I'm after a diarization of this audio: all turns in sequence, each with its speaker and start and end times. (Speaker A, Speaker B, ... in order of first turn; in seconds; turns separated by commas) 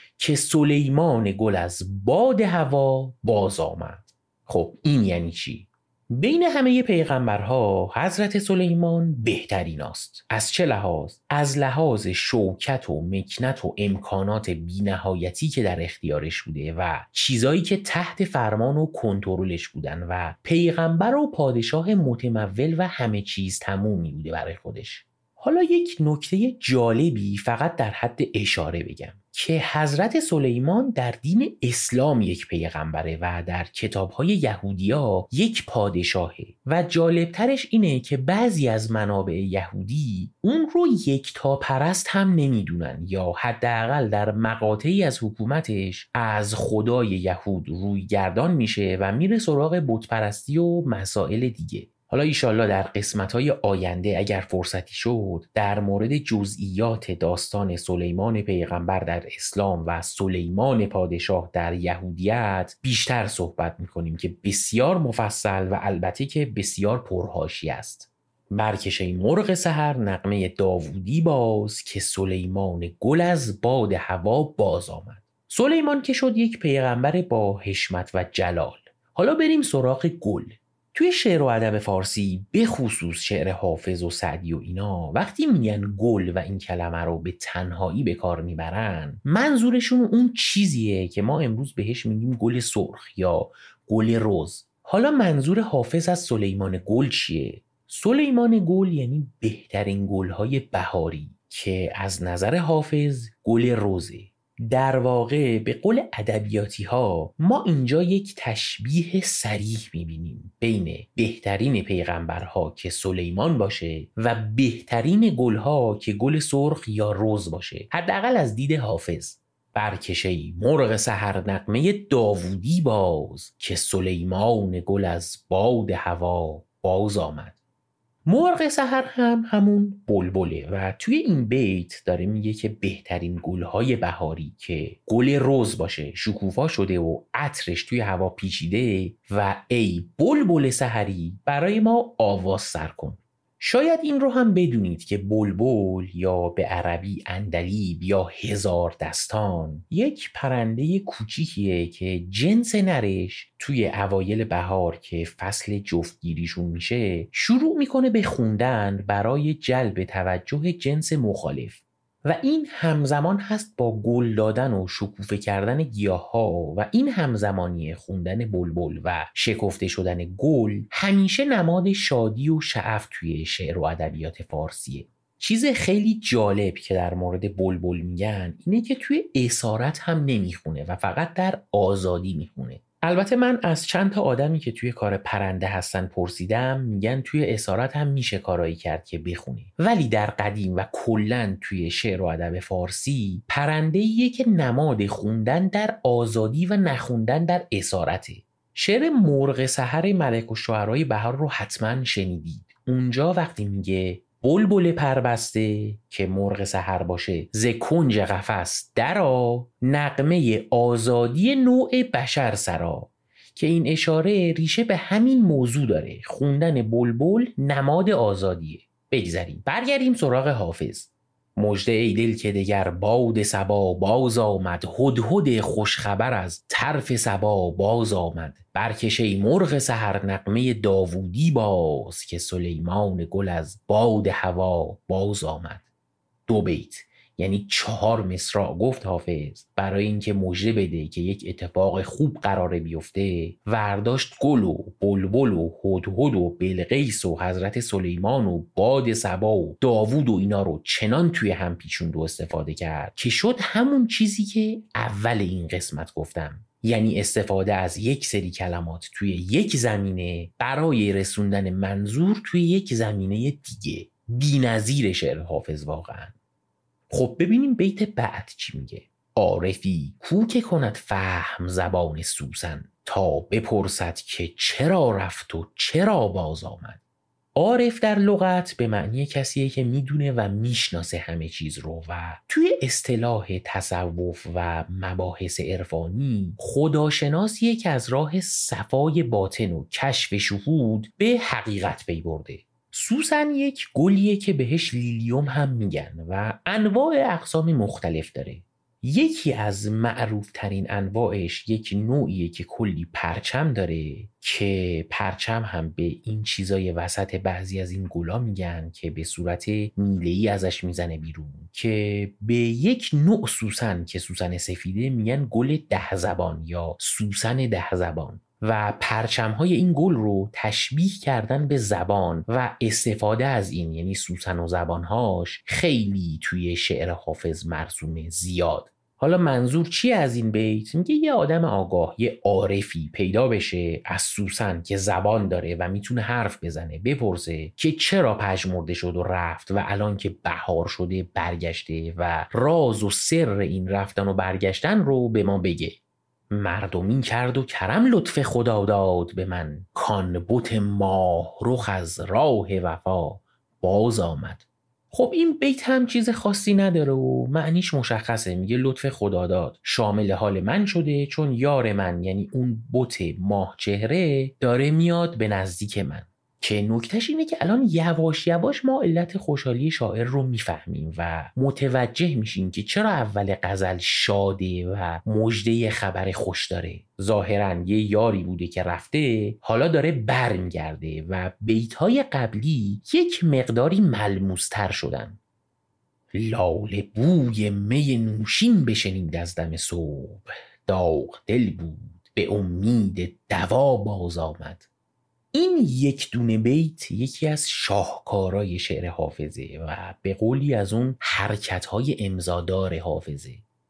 Speaker A: 0.2-127.6, Speaker A: 128.3-235.8, Speaker A: 236.5-266.4, Speaker A: 267.1-277.0, Speaker A: 277.6-346.0, Speaker A: 346.5-385.4, Speaker A: 386.3-394.9, Speaker A: 395.5-403.6